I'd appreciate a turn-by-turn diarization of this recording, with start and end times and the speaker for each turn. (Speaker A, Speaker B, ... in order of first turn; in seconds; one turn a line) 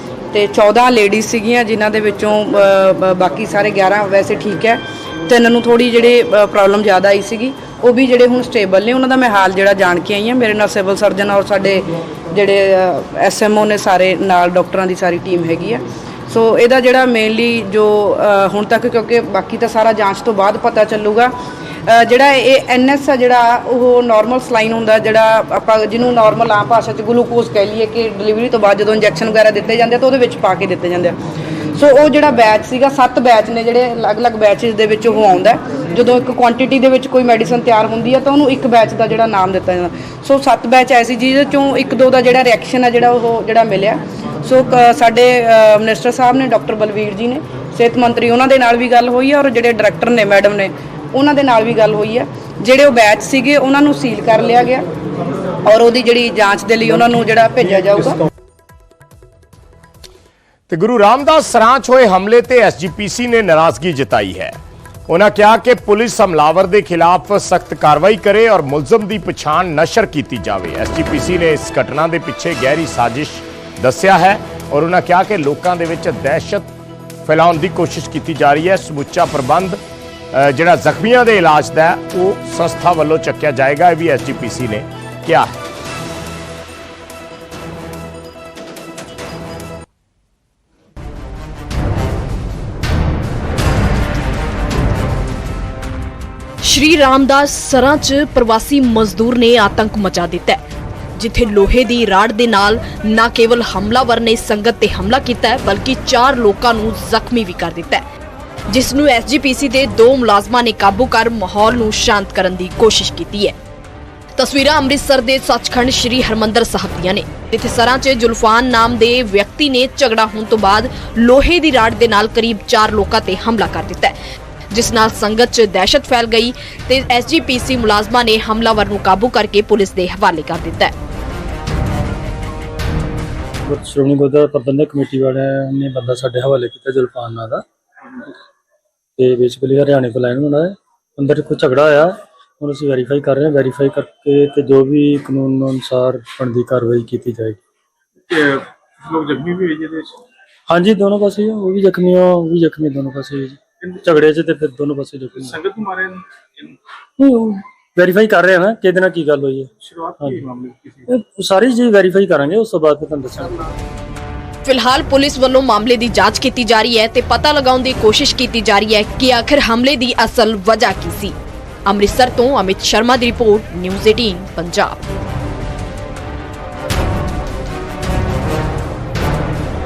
Speaker A: 0.3-21.3
Speaker A: 21.9-31.2
Speaker A: 31.8-54.9
Speaker A: 55.6-58.2
Speaker B: 60.7-64.6
Speaker B: 65.1-76.7
Speaker B: 77.2-79.8
Speaker B: 80.3-85.6
Speaker C: 96.6-100.6
Speaker C: 101.2-108.0
Speaker C: 108.7-113.5
Speaker C: 114.4-124.2
Speaker C: 124.7-130.9
Speaker D: 133.7-137.6
Speaker D: 139.2-147.6
Speaker E: 148.3-150.1
Speaker D: 150.7-155.7
Speaker E: 155.4-156.7
Speaker D: 157.2-160.5
Speaker E: 159.9-161.0
Speaker D: 161.1-163.7
Speaker C: 164.7-171.3
Speaker C: 171.9-175.0